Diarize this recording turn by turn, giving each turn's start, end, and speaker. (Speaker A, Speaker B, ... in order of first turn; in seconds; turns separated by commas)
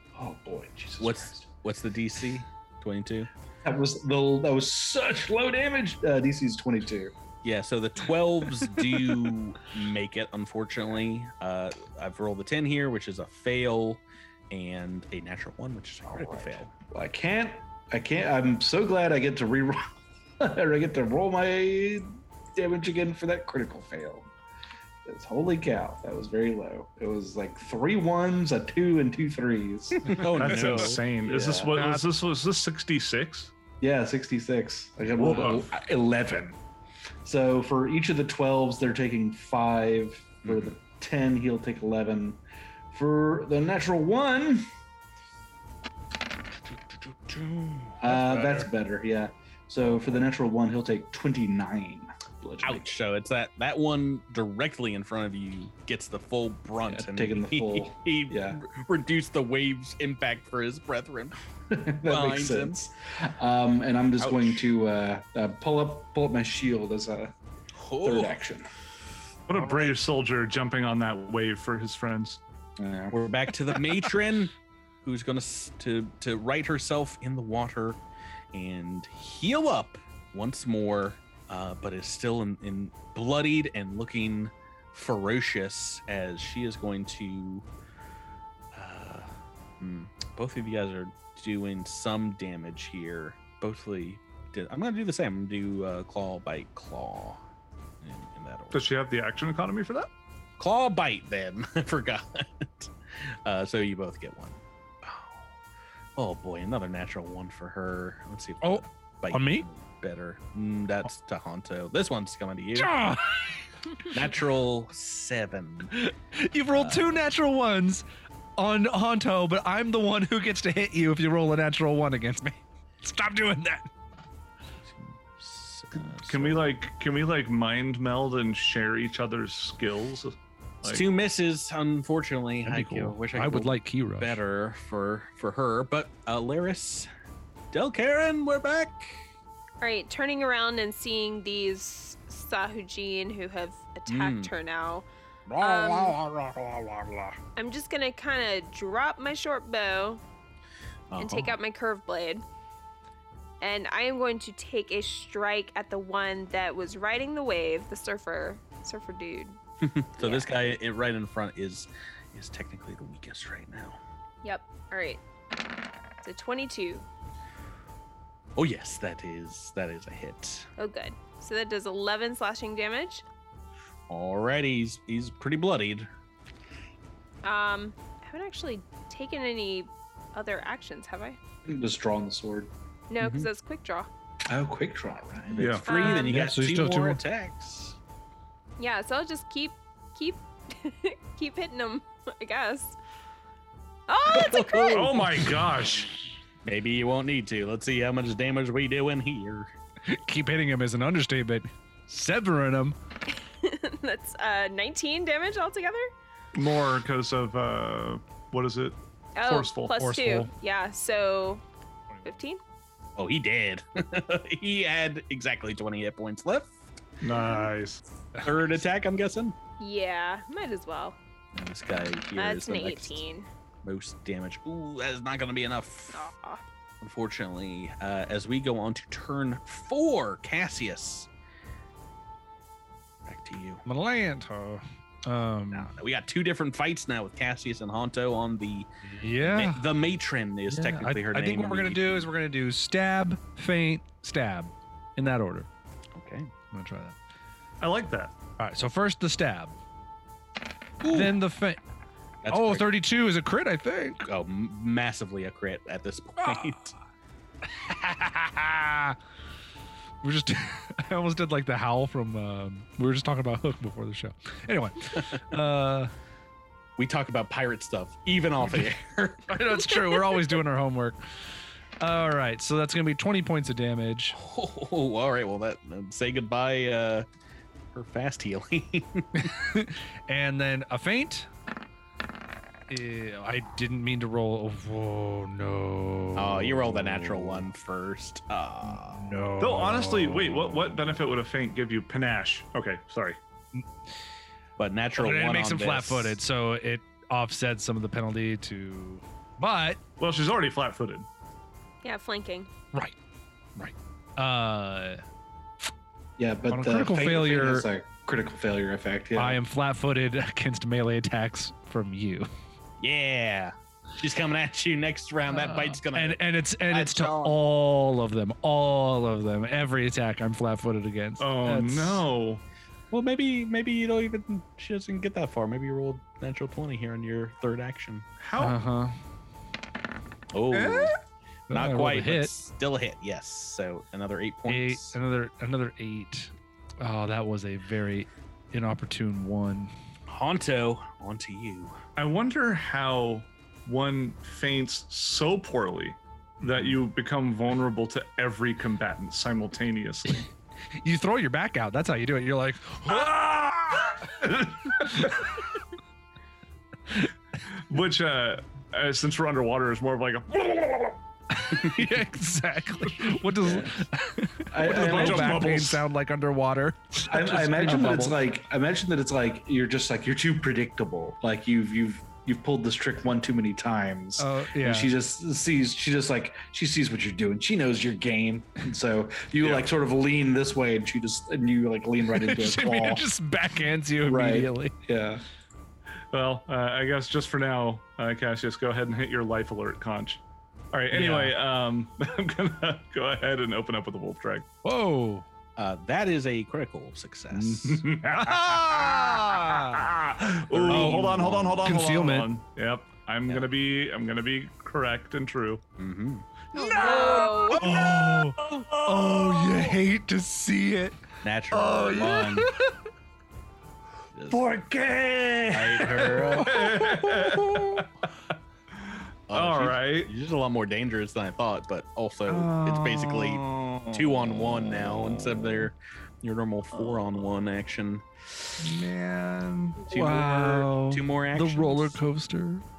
Speaker A: 0.1-1.4, Speaker B: 1.0-3.3, Speaker A: 3.6-7.1, Speaker B: 7.4-16.7, Speaker A: 16.1-24.3, Speaker A: 25.1-30.5, Speaker B: 30.0-31.0, Speaker C: 30.3-33.5, Speaker A: 31.2-31.8, Speaker D: 31.7-32.1, Speaker A: 33.8-36.6, Speaker C: 35.2-35.7, Speaker A: 37.2-42.4, Speaker B: 40.4-40.8, Speaker A: 42.9-44.6, Speaker B: 46.9-48.6, Speaker A: 48.0-52.9, Speaker B: 52.6-61.4, Speaker A: 56.8-58.6, Speaker A: 61.7-67.3, Speaker B: 62.0-62.8, Speaker B: 64.2-64.7, Speaker B: 67.8-68.3, Speaker A: 68.0-68.7, Speaker C: 69.5-72.4, Speaker A: 72.8-73.1, Speaker B: 73.1-78.0, Speaker B: 78.5-87.7, Speaker B: 88.7-97.4, Speaker B: 98.0-98.9, Speaker C: 98.7-100.1, Speaker B: 100.6-105.5, Speaker B: 106.2-112.9, Speaker D: 108.6-109.7, Speaker D: 112.8-113.6, Speaker B: 114.1-115.9, Speaker D: 115.9-118.0, Speaker B: 116.7-117.2, Speaker D: 118.6-123.9, Speaker B: 124.8-126.7, Speaker C: 126.2-131.0, Speaker B: 130.8-137.1, Speaker D: 132.7-134.4, Speaker B: 137.7-139.2, Speaker E: 139.8-145.1, Speaker B: 144.1-144.5, Speaker B: 145.5-147.4, Speaker E: 145.6-146.2, Speaker E: 147.6-150.2, Speaker B: 151.1-151.6, Speaker E: 151.2-152.4, Speaker E: 153.6-159.6, Speaker B: 159.8-164.0, Speaker E: 160.2-160.6, Speaker E: 164.4-165.2, Speaker E: 166.2-167.1, Speaker B: 168.6-170.7, Speaker E: 170.8-173.2, Speaker B: 174.1-176.1, Speaker E: 177.4-181.4, Speaker A: 181.6-182.7, Speaker E: 183.1-184.1, Speaker B: 183.2-183.5, Speaker A: 184.5-185.8, Speaker C: 185.6-186.0, Speaker B: 185.6-188.0, Speaker E: 185.9-186.3, Speaker D: 186.1-187.2, Speaker E: 188.8-193.0, Speaker E: 194.1-195.2, Speaker B: 194.3-195.6, Speaker C: 194.9-196.2, Speaker B: 196.6-199.7, Speaker D: 200.1-202.9, Speaker E: 203.3-206.1, Speaker C: 206.5-209.9, Speaker E: 209.3-211.6, Speaker D: 209.9-210.5, Speaker E: 212.2-212.6, Speaker B: 213.2-216.7, Speaker C: 217.2-218.0, Speaker D: 218.3-218.6, Speaker B: 218.4-219.5, Speaker E: 219.8-221.2, Speaker B: 221.5-223.2, Speaker E: 222.4-223.5, Speaker B: 223.8-226.3, Speaker E: 226.1-226.6, Speaker B: 227.0-231.3, Speaker B: 233.3-233.8, Speaker D: 233.8-235.9, Speaker B: 235.7-242.3, Speaker D: 239.0-239.8, Speaker D: 240.7-245.7, Speaker B: 246.1-246.5, Speaker D: 246.7-247.2, Speaker C: 247.8-248.3, Speaker D: 248.6-249.7, Speaker B: 251.0-251.3, Speaker D: 251.1-251.8, Speaker B: 252.4-252.9, Speaker D: 252.5-254.2, Speaker B: 254.2-256.9, Speaker D: 256.4-256.8, Speaker D: 257.7-259.1, Speaker D: 260.2-266.1, Speaker B: 265.1-265.4, Speaker B: 267.0-269.9, Speaker D: 269.5-271.2, Speaker D: 272.0-274.4, Speaker B: 274.3-277.2, Speaker B: 277.9-279.5, Speaker D: 279.4-281.5, Speaker D: 282.9-287.6, Speaker B: 286.3-289.3, Speaker D: 288.8-291.0, Speaker C: 289.6-293.4, Speaker B: 294.8-296.4, Speaker D: 295.2-300.0, Speaker C: 300.2-301.3, Speaker E: 302.0-302.7, Speaker D: 303.8-305.2, Speaker A: 306.4-309.6, Speaker D: 306.7-307.9, Speaker D: 309.4-312.5, Speaker B: 313.0-317.6, Speaker D: 315.5-322.2, Speaker C: 321.4-322.6, Speaker B: 323.1-328.3, Speaker C: 328.4-328.8, Speaker D: 328.6-329.1, Speaker B: 330.5-331.1, Speaker C: 330.8-331.1, Speaker B: 331.7-335.2, Speaker D: 331.7-332.5, Speaker D: 334.7-339.9, Speaker B: 340.3-342.0, Speaker C: 342.1-350.5, Speaker D: 351.0-353.4, Speaker C: 353.1-355.5, Speaker C: 357.9-361.2, Speaker D: 361.5-368.4, Speaker C: 363.2-363.8, Speaker A: 364.7-365.7, Speaker C: 364.8-366.0, Speaker A: 367.3-383.3, Speaker D: 374.4-375.1, Speaker C: 379.6-379.9, Speaker D: 382.3-384.9, Speaker A: 384.2-385.4, Speaker C: 386.3-394.7, Speaker D: 391.1-391.6, Speaker D: 394.8-395.4, Speaker B: 395.8-398.0, Speaker C: 397.5-405.8, Speaker D: 398.4-400.1, Speaker B: 400.7-401.9, Speaker D: 400.9-402.5, Speaker B: 406.0-408.1, Speaker C: 406.7-409.9, Speaker D: 406.7-411.2, Speaker E: 406.8-407.9, Speaker B: 411.4-412.7, Speaker D: 411.7-412.7, Speaker B: 414.3-414.8, Speaker A: 414.5-416.0, Speaker B: 415.7-416.8, Speaker C: 416.1-418.1, Speaker D: 416.5-418.0, Speaker C: 419.0-420.3, Speaker B: 419.5-428.8, Speaker C: 422.5-424.6, Speaker C: 428.8-430.1, Speaker B: 430.0-432.2, Speaker D: 430.1-432.8